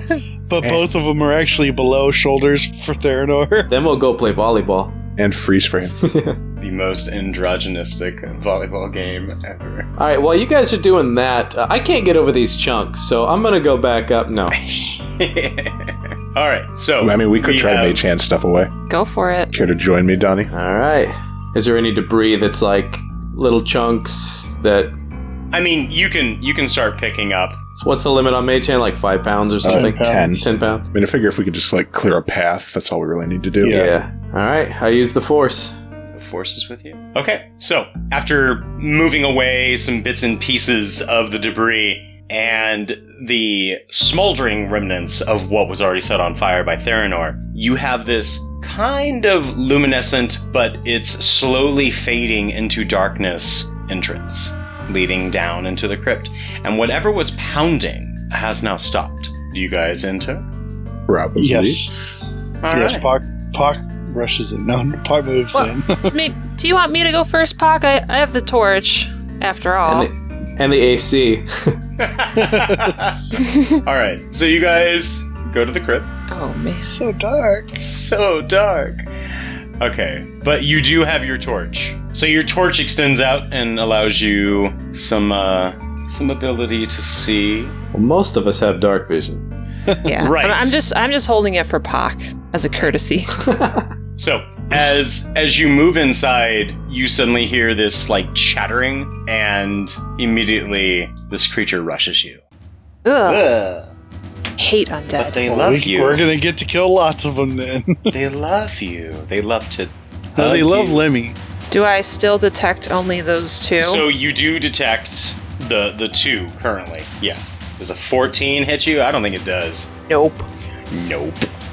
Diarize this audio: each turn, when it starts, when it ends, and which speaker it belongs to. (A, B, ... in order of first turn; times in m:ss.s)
0:00.5-0:03.7 A
0:03.7-0:04.9 B
0:05.2-0:06.0 C
0:06.0-0:06.4 B
0:06.6-0:09.9 D
0:10.0-0:14.6 B
0:14.8-0:18.0 D
0:17.0-0:18.7 C
0:18.9-0:19.5 E
0:19.5-0:20.5 C
0:20.5-0:24.9 B
0:25.5-0:27.6 D
0:27.8-0:30.8 B
0:29.6-0:33.9 C
0:29.7-0:30.4 A
0:33.6-0:34.0 A
0:33.7-0:35.7 B
0:36.1-1:00.4 D
1:01.1-1:01.9 C
1:01.4-1:02.1 A
1:02.6-1:03.1 D
1:02.7-1:06.1 A
1:05.5-1:10.1 E
1:09.9-1:11.8 B
1:12.0-1:16.1 D
1:12.4-1:13.1 A
1:13.3-1:13.8 E
1:16.3-1:17.0 E
1:16.9-1:17.8 A
1:17.8-1:19.0 D
1:19.8-1:27.8 D
1:27.9-1:29.4 B
1:30.0-1:33.3 E
1:30.2-1:30.7 D
1:33.4-1:33.9 B
1:34.2-1:42.4 D
1:43.0-1:43.5 E
1:43.2-1:43.9 D
1:44.6-1:45.4 E
1:45.2-1:46.2 D
1:45.4-1:48.1 A
1:48.1-1:51.0 D
1:50.4-1:51.4 A
1:51.7-1:54.0 E
1:53.8-1:59.9 D
2:00.1-2:00.4 E
2:00.9-2:01.5 D